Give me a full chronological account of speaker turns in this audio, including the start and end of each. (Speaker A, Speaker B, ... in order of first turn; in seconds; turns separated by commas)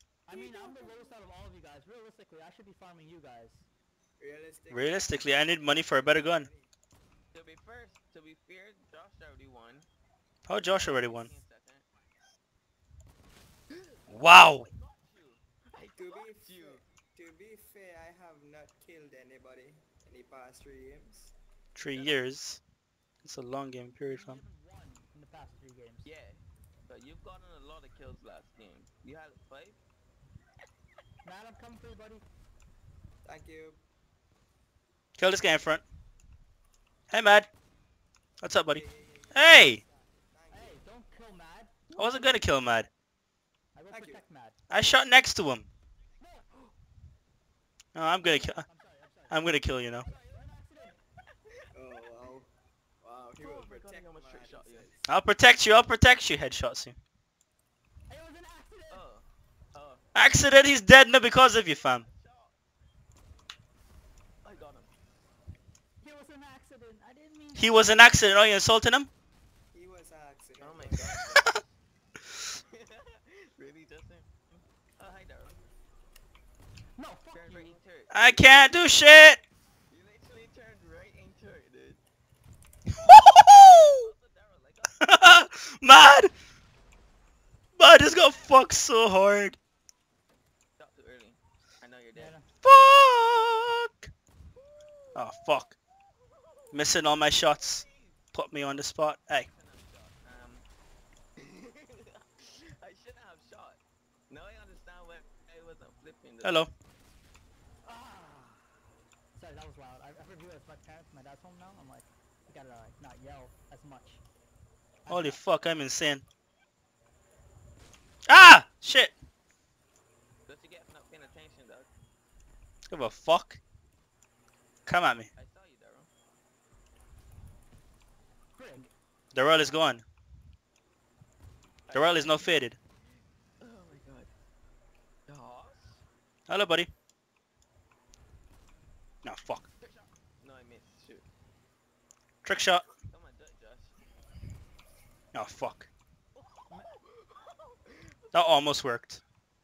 Speaker A: 0.2-3.7, Speaker B: 0.3-1.2, Speaker B: 4.2-6.7, Speaker C: 4.7-6.5, Speaker D: 7.3-9.9, Speaker C: 10.5-11.3, Speaker D: 10.6-11.8, Speaker D: 13.7-16.8, Speaker C: 14.1-14.7, Speaker B: 15.9-21.3, Speaker C: 21.7-22.6, Speaker D: 21.9-22.2, Speaker C: 23.2-24.4, Speaker A: 24.1-26.1, Speaker D: 26.0-29.8, Speaker A: 31.2-32.2, Speaker B: 33.2-33.8, Speaker C: 35.2-35.8, Speaker C: 37.1-37.5, Speaker C: 38.4-39.8, Speaker B: 38.6-40.9, Speaker A: 40.5-41.8, Speaker D: 41.9-42.4, Speaker C: 41.9-42.9, Speaker A: 43.7-44.6, Speaker B: 43.9-44.2, Speaker C: 44.7-45.7, Speaker A: 46.2-46.5, Speaker C: 47.9-48.6, Speaker A: 48.2-49.4, Speaker C: 49.3-50.1, Speaker A: 50.0-51.0, Speaker B: 51.7-52.5, Speaker B: 53.0-55.1, Speaker D: 53.4-54.9, Speaker C: 55.0-57.0, Speaker A: 58.1-59.0, Speaker D: 58.9-60.0, Speaker C: 60.1-62.0, Speaker D: 61.4-62.6, Speaker D: 64.4-64.9, Speaker A: 66.0-68.0, Speaker C: 67.5-69.1, Speaker B: 69.7-71.3, Speaker D: 70.6-71.6, Speaker D: 72.5-75.6, Speaker A: 77.0-77.8, Speaker D: 77.3-78.9, Speaker C: 78.1-79.4, Speaker D: 79.9-82.0, Speaker C: 83.0-84.1, Speaker D: 83.4-85.2, Speaker C: 85.0-86.3, Speaker C: 87.8-89.6, Speaker D: 90.8-92.3, Speaker A: 92.1-92.5, Speaker C: 92.6-94.1, Speaker D: 94.5-100.7, Speaker C: 95.1-95.7, Speaker C: 96.7-99.5, Speaker D: 101.4-106.7, Speaker C: 106.4-106.7, Speaker A: 107.8-108.6, Speaker A: 109.3-114.2, Speaker A: 115.0-115.4, Speaker C: 115.1-116.2, Speaker C: 118.3-119.1, Speaker D: 120.5-121.9, Speaker C: 122.9-123.6, Speaker C: 124.8-125.3, Speaker D: 125.3-126.1, Speaker A: 128.5-128.9, Speaker C: 129.3-130.0, Speaker D: 131.9-132.7, Speaker C: 131.9-132.8, Speaker D: 133.6-134.3, Speaker D: 135.3-136.0, Speaker C: 136.5-136.9, Speaker C: 139.2-139.7, Speaker D: 139.8-141.3, Speaker C: 142.4-142.8, Speaker D: 142.9-144.0, Speaker C: 145.3-145.9, Speaker D: 146.3-148.5, Speaker C: 148.3-149.2